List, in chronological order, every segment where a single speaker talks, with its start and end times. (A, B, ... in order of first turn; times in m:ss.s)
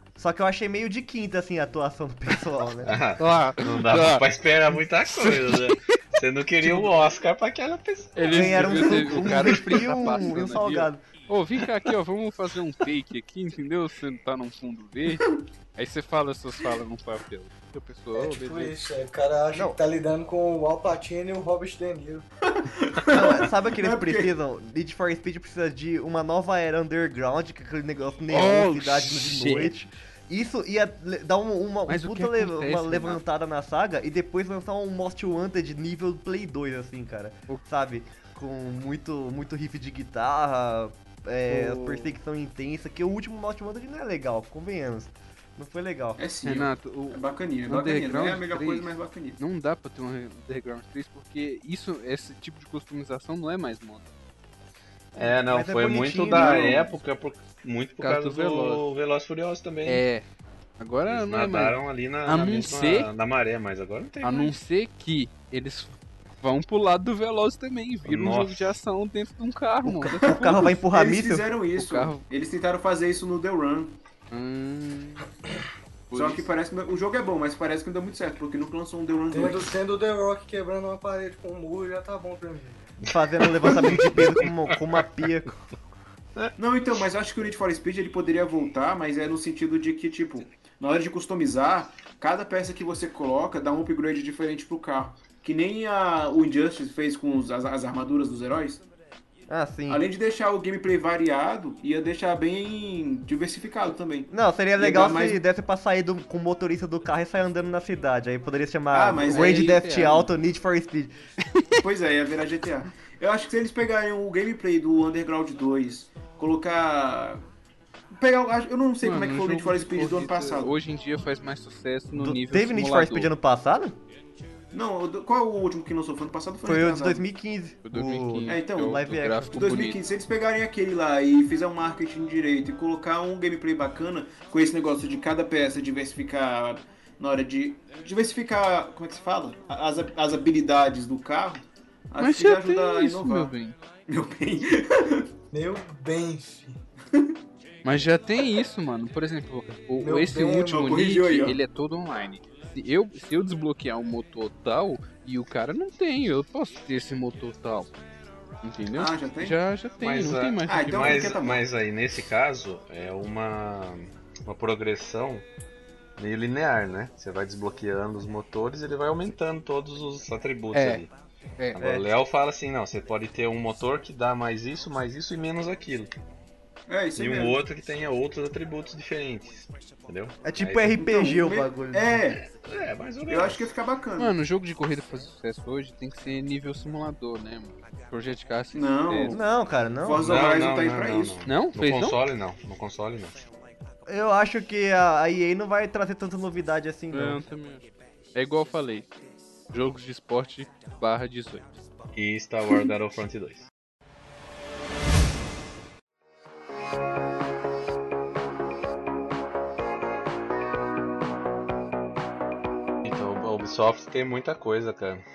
0:00.2-0:02.9 A
0:02.8-0:09.2 B
0:03.2-0:04.2 C
0:05.2-0:05.5 C
0:06.6-0:06.9 C
0:08.2-0:18.7 C
0:08.3-0:11.0 A
0:18.1-0:22.2 D
0:19.5-0:19.8 A
0:22.4-0:24.3 E
0:23.1-0:46.2 A
0:28.3-0:29.7 C
0:31.9-0:33.2 C
0:41.5-0:42.1 C
0:46.2-0:49.4 E
0:46.4-0:54.1 C
0:55.1-1:00.0 B
0:55.4-0:56.8 A
0:56.3-0:56.9 E
0:58.0-0:58.8 C
0:59.8-1:00.2 C
1:00.8-1:03.1 C
1:01.1-1:04.5 B
1:04.2-1:10.4 C
1:08.0-1:08.7 B
1:09.8-1:11.5 A
1:10.2-1:14.0 E
1:11.7-1:12.2 C
1:14.3-1:15.3 C
1:16.1-1:16.4 C
1:16.1-1:19.7 E
1:19.3-1:22.9 D
1:23.1-1:25.6 A
1:23.4-1:24.3 B
1:26.6-1:38.8 E
1:39.5-1:40.0 A
1:39.9-1:45.4 E
1:44.3-1:51.1 A
1:48.9-1:49.8 E
1:49.3-1:50.3 C
1:51.8-1:57.4 E
1:58.1-2:00.7 E
1:59.0-2:03.3 C
2:02.1-2:04.0 A
2:04.7-2:07.2 E
2:06.6-2:09.6 A
2:07.8-2:10.0 C
2:08.5-2:09.0 E
2:09.5-2:23.5 E
2:22.2-2:23.8 C
2:24.1-2:25.3 E
2:25.5-2:26.8 D
2:27.8-2:37.9 C
2:30.0-2:30.9 D
2:30.7-2:31.6 E
2:38.6-2:41.3 C
2:38.9-2:39.6 E
2:40.0-2:45.4 B
2:40.6-2:41.6 E
2:46.2-2:51.1 B
2:50.7-2:51.0 C
2:51.7-2:56.1 B
2:51.8-2:52.0 A
2:56.9-2:57.6 E
2:57.2-3:01.0 B
3:00.4-3:02.3 A
3:01.0-3:02.4 E
3:02.4-3:03.7 B
3:03.2-3:04.3 E
3:04.2-3:09.4 C
3:08.7-3:09.4 E
3:09.3-3:10.3 A
3:10.0-3:11.4 E
3:10.2-3:13.5 B
3:11.4-3:12.2 C
3:14.0-3:17.4 A
3:17.1-3:19.1 C
3:19.7-3:21.8 C
3:22.1-3:23.7 B
3:33.0-3:35.2 B